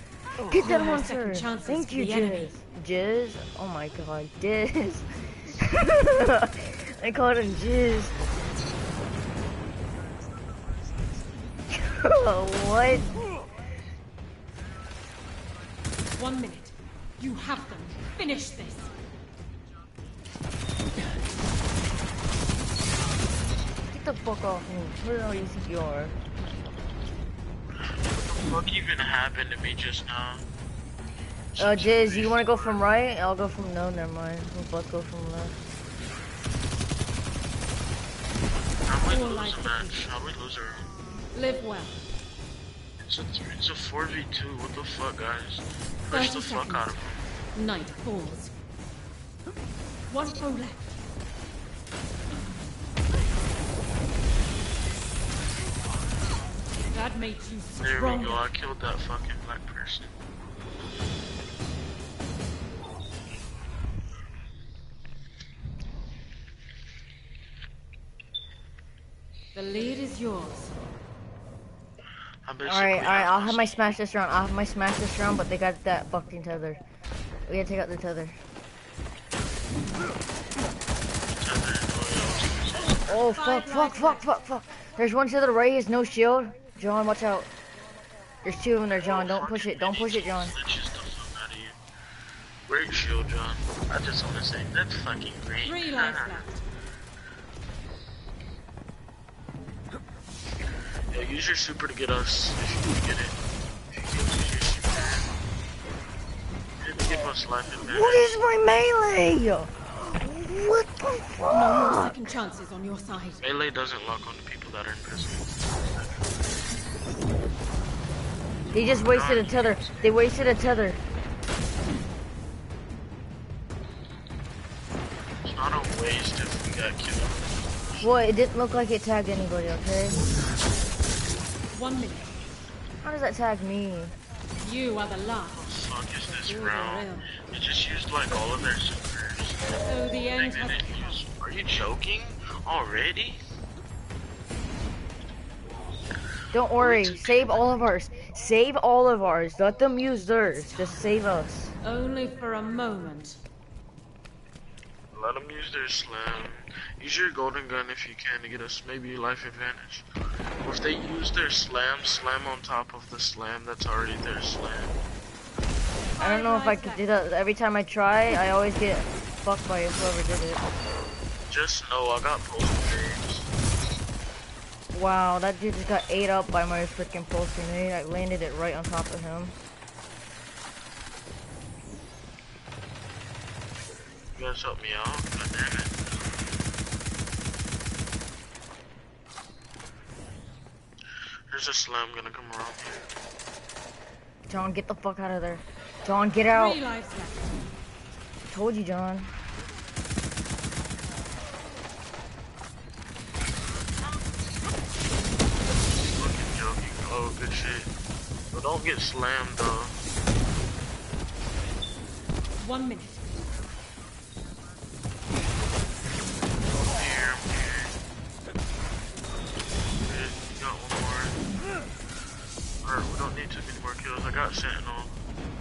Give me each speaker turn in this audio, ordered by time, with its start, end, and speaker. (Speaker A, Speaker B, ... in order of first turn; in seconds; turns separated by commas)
Speaker A: 0.4-8.2, Speaker B: 0.5-2.5, Speaker A: 11.7-13.2, Speaker B: 16.1-18.9, Speaker A: 23.9-26.2, Speaker C: 28.0-30.4, Speaker C: 31.6-32.8, Speaker A: 31.6-35.6, Speaker C: 38.9-40.9, Speaker B: 39.1-40.0, Speaker B: 41.3-42.0, Speaker C: 43.0-47.2, Speaker B: 46.1-47.0, Speaker B: 47.5-48.5, Speaker B: 50.1-50.9, Speaker B: 56.9-58.5, Speaker C: 57.8-60.1, Speaker B: 69.5-70.7, Speaker C: 72.5-74.0, Speaker A: 72.7-76.8, Speaker A: 77.5-78.4, Speaker C: 81.3-83.3, Speaker A: 83.0-87.5, Speaker B: 83.3-84.3, Speaker A: 88.4-90.5, Speaker C: 89.0-91.8, Speaker C: 92.7-96.5, Speaker B: 95.6-96.6, Speaker C: 101.1-103.4, Speaker C: 103.9-105.2, Speaker C: 106.8-108.4, Speaker A: 107.8-112.3, Speaker B: 111.5-113.4, Speaker C: 113.4-115.7, Speaker C: 118.7-120.3, Speaker A: 118.7-121.0, Speaker C: 125.4-128.1, Speaker A: 128.0-130.2, Speaker B: 131.7-132.4, Speaker A: 133.0-134.2, Speaker B: 134.6-135.6, Speaker C: 135.5-139.8, Speaker B: 136.3-137.3, Speaker B: 139.7-141.2, Speaker C: 140.3-143.4, Speaker A: 146.5-151.7, Speaker C: 146.8-147.7, Speaker B: 150.4-151.0, Speaker B: 151.8-153.4, Speaker C: 155.1-160.1, Speaker C: 160.6-164.9, Speaker B: 166.2-167.0, Speaker A: 166.2-170.7, Speaker C: 171.5-173.5, Speaker A: 174.9-179.6, Speaker C: 184.3-185.9, Speaker C: 191.5-193.1, Speaker A: 194.5-196.8, Speaker B: 196.5-197.5, Speaker A: 198.5-199.3, Speaker C: 205.9-207.9, Speaker C: 208.5-210.0, Speaker B: 212.6-213.2, Speaker C: 216.7-217.9, Speaker C: 220.0-221.4, Speaker C: 222.8-225.2